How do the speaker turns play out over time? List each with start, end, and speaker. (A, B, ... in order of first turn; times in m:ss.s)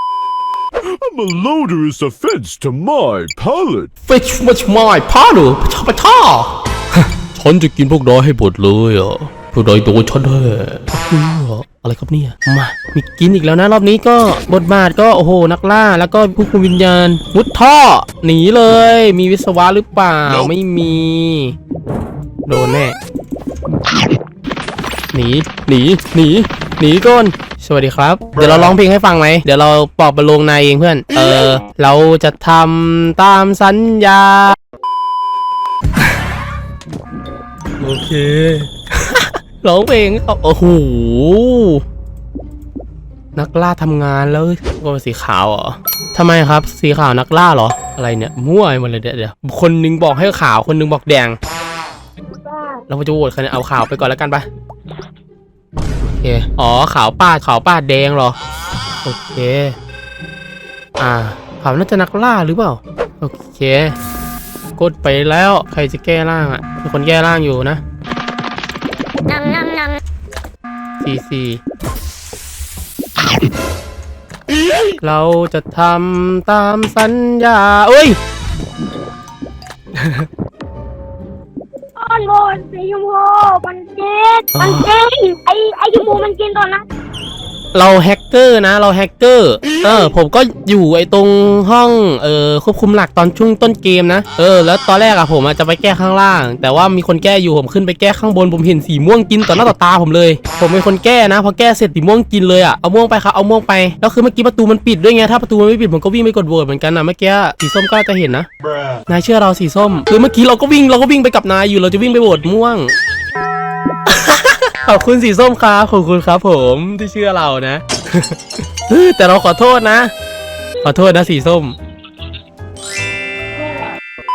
0:00.8-0:03.9 A
0:04.1-0:21.6 B
0:22.5-0:23.0 B
0:25.1-0:34.6 B
0:37.8-0:41.8 B
0:43.4-0:51.4 B
0:52.9-0:54.4 B
0:56.0-0:58.4 B
0:59.0-0:59.8 B
1:01.0-1:04.0 B
1:04.8-1:07.8 B
1:09.4-1:09.7 C
1:11.0-1:11.6 B
1:15.0-1:18.2 B
1:20.0-1:20.3 B
1:22.0-1:26.8 C
1:24.6-1:24.9 B
1:27.7-1:48.5 B
1:49.1-1:52.9 B
1:54.1-2:00.1 B
2:00.8-2:01.8 B